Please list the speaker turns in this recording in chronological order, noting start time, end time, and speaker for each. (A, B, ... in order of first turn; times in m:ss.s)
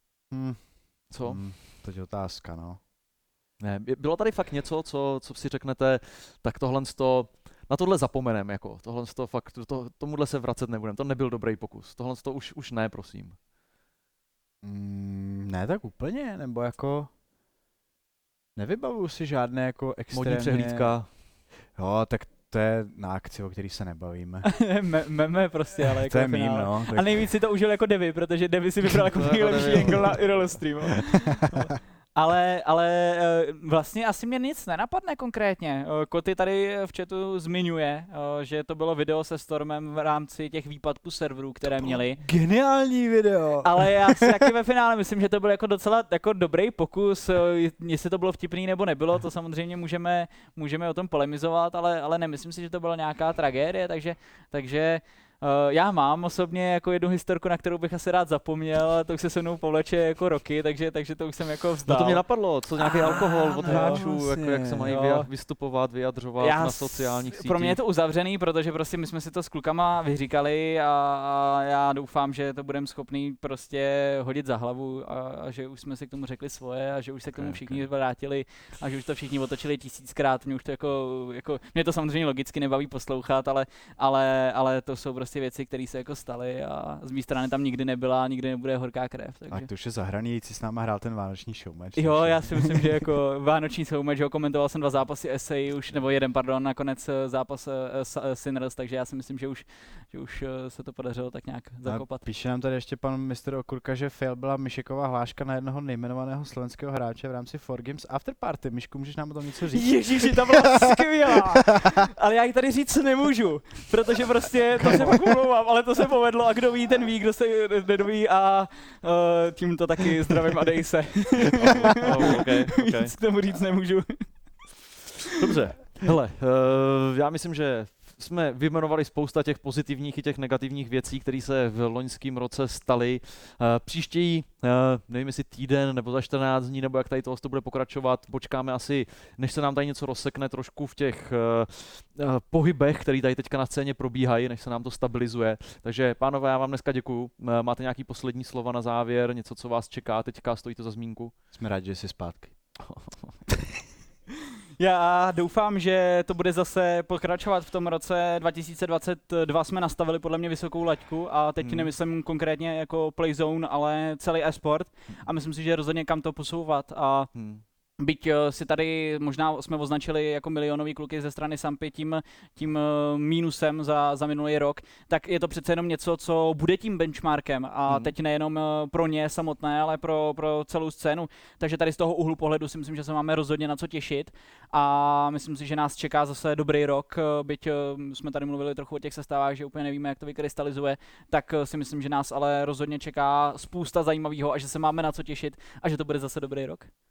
0:00.3-0:02.8 A
0:01.1-0:01.5 B
0:03.6-0:13.4 B
0:14.6-0:17.1 A
0:18.6-0:24.5 A
0:20.1-0:21.1 B
0:24.5-0:42.2 C
0:26.0-0:27.3 A
0:29.1-0:30.6 B
0:41.7-0:44.5 A
0:43.6-1:04.1 C
1:01.8-1:07.8 B
1:03.1-1:04.9 A
1:04.8-1:05.3 C
1:06.4-1:29.7 C
1:17.4-1:17.9 B
1:29.5-1:33.0 A
1:32.0-1:42.2 C
1:41.8-1:51.9 A
1:49.7-2:04.7 C
1:54.8-1:55.3 A
2:01.6-2:03.1 B
2:05.4-2:31.3 B
2:31.5-2:32.8 A
2:32.8-2:33.4 B
2:34.8-2:47.3 C
2:41.6-2:41.9 B
2:47.3-2:47.6 B
2:48.0-3:16.9 C
2:57.9-2:58.1 B